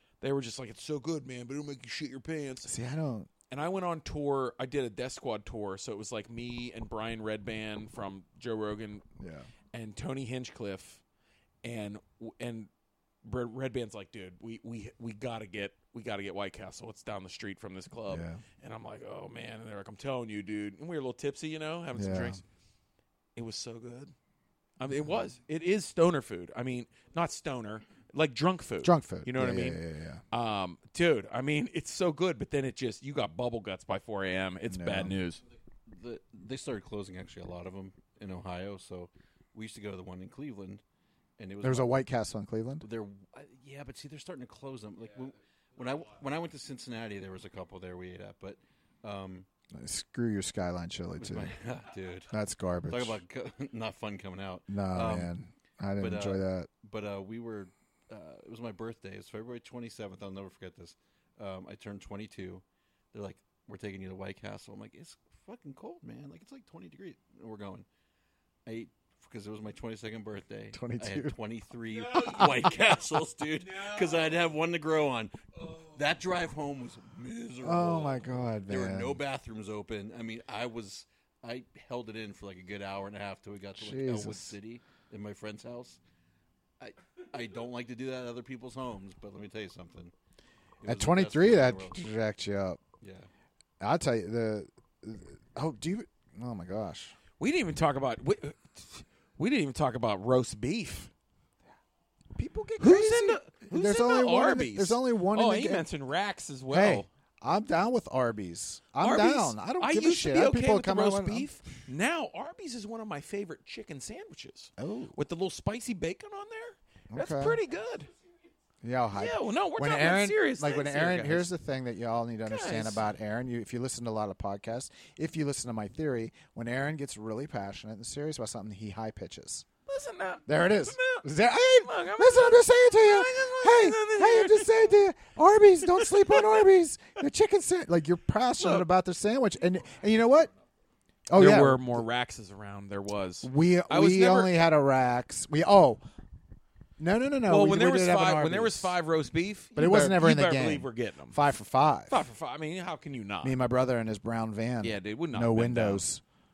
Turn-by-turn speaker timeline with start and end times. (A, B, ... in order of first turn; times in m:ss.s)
0:00.2-0:02.7 A
0:02.6-0:03.3 B
0:03.5-0:09.1 A
0:09.2-0:09.5 B
0:09.7-0:11.0 A
0:11.6-0:12.7 A
0:13.2-0:22.4 A
0:18.1-0:18.4 B
0:22.0-0:22.4 B
0:23.4-0:24.1 A
0:24.8-0:35.4 A
0:28.8-0:30.2 B
0:34.7-0:35.1 B
0:35.9-0:40.8 C
0:41.4-0:42.0 C
0:41.6-0:42.8 B
0:42.8-0:49.5 C
0:49.7-0:51.5 B
0:51.2-0:52.3 C
0:52.3-0:53.2 B
0:52.9-0:55.3 C
0:54.7-0:56.7 B
0:56.0-1:07.9 C
1:08.7-1:26.0 C
1:10.7-1:11.4 B
1:12.1-1:12.7 A
1:12.2-1:12.7 B
1:13.6-1:14.3 A
1:17.6-1:19.2 B
1:23.8-1:24.6 B
1:26.8-1:30.1 C
1:30.8-1:32.1 C
1:30.8-1:32.8 B
1:33.0-1:33.3 C
1:33.8-1:37.2 B
1:37.4-1:41.1 A
1:42.4-1:45.9 B
1:42.8-1:47.1 A
1:46.7-1:51.5 B
1:49.0-1:58.1 A
1:54.8-1:55.2 B
1:57.1-1:57.6 B
1:58.8-2:09.7 B
1:59.1-2:01.5 A
2:02.4-2:03.0 A
2:09.9-2:14.9 A
2:10.5-2:20.5 B
2:15.9-2:16.6 A
2:18.6-2:18.9 A
2:19.8-2:20.7 C
2:21.3-2:22.0 B
2:21.4-2:24.5 A
2:23.4-2:26.0 B
2:27.0-2:29.0 B
2:27.5-2:31.4 A
2:29.8-2:32.2 B
2:32.1-2:33.6 A
2:33.4-2:36.2 B
2:34.8-2:36.0 A